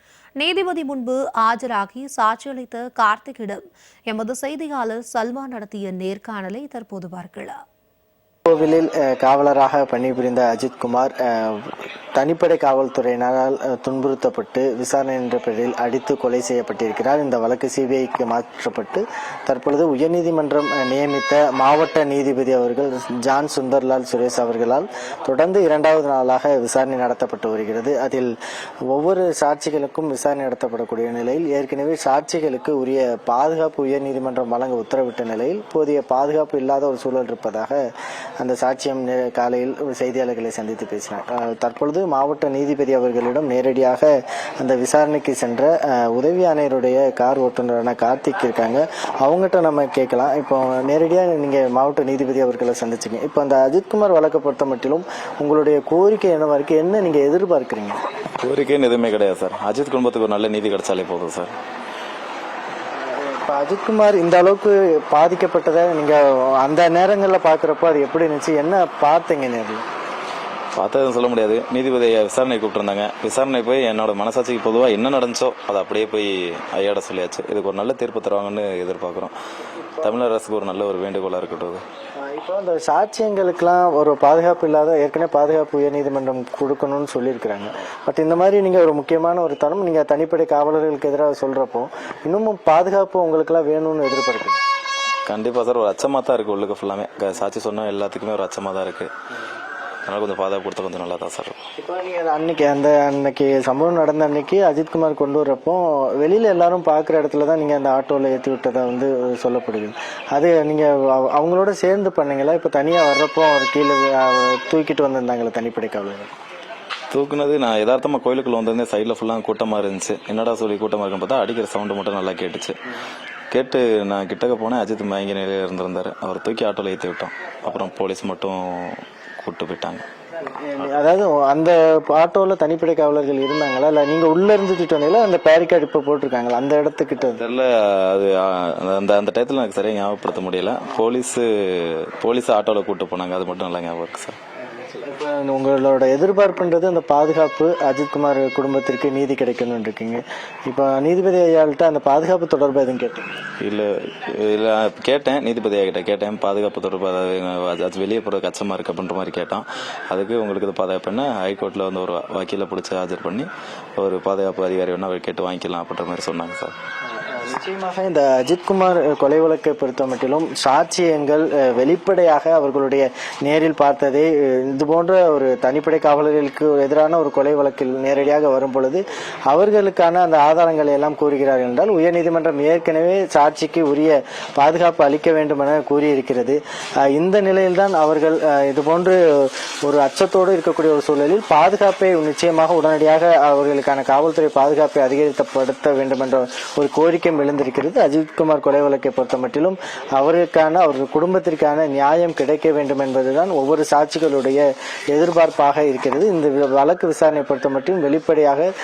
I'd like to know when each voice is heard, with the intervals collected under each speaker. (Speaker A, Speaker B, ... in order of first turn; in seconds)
Speaker A: 0.4-7.5
Speaker B: 8.5-28.3, 28.9-37.8, 38.4-58.0, 63.0-69.8, 82.2-94.6, 101.8-116.3, 130.5-137.4, 145.0-153.2, 167.2-208.7
Speaker C: 58.4-61.5, 70.8-79.3, 80.0-81.8, 95.3-99.1, 100.1-101.6, 117.1-122.7, 123.5-130.0, 137.3-144.4, 153.6-166.7